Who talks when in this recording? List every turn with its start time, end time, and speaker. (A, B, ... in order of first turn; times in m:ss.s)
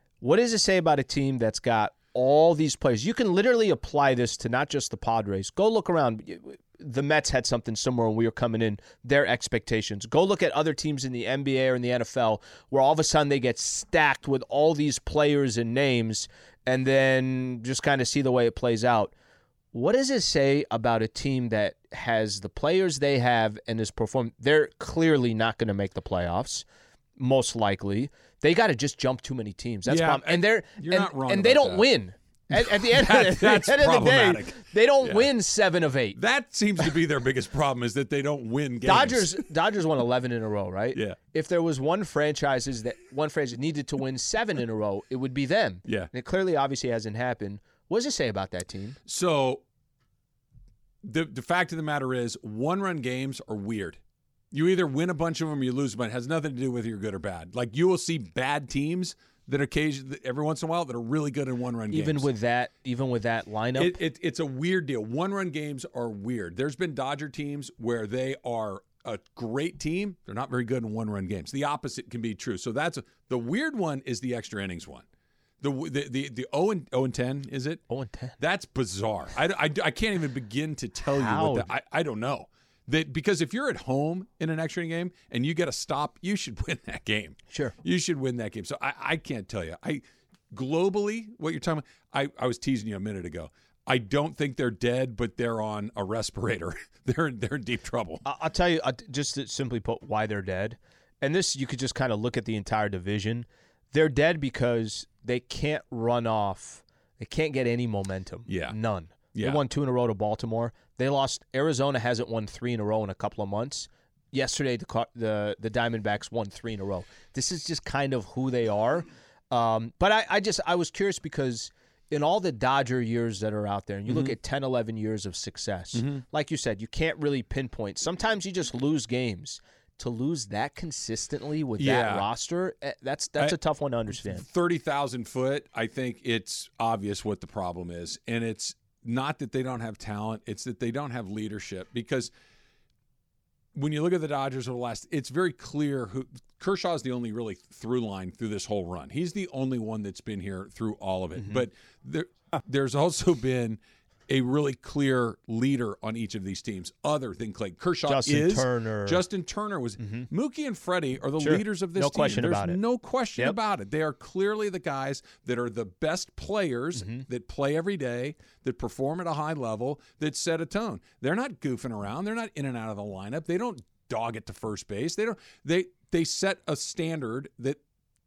0:00.2-0:19.1 A
0:19.7-0:26.6 A
0:27.2-0:36.2 A
0:29.8-0:31.9 B
0:32.6-0:35.3 B
0:36.1-0:39.4 B
0:38.8-0:49.0 A
0:49.0-0:49.6 B
0:51.0-0:54.0 B
0:54.5-1:02.3 B
1:01.9-1:04.0 A
1:03.8-1:15.0 B
1:15.6-1:17.8 B
1:17.9-1:18.4 A
1:18.4-1:38.2 B
1:21.0-1:21.7 A
1:27.5-1:27.7 A
1:38.2-2:14.4 A
1:48.5-1:48.8 B
1:49.3-1:49.6 B
2:04.1-2:04.3 B
2:05.9-2:06.2 B
2:11.8-2:12.3 B
2:14.1-2:22.3 B
2:23.7-2:57.8 B
2:31.4-2:31.7 A
2:38.0-2:39.2 A
2:40.0-2:40.3 A
2:41.4-2:42.8 A
2:46.9-2:47.2 A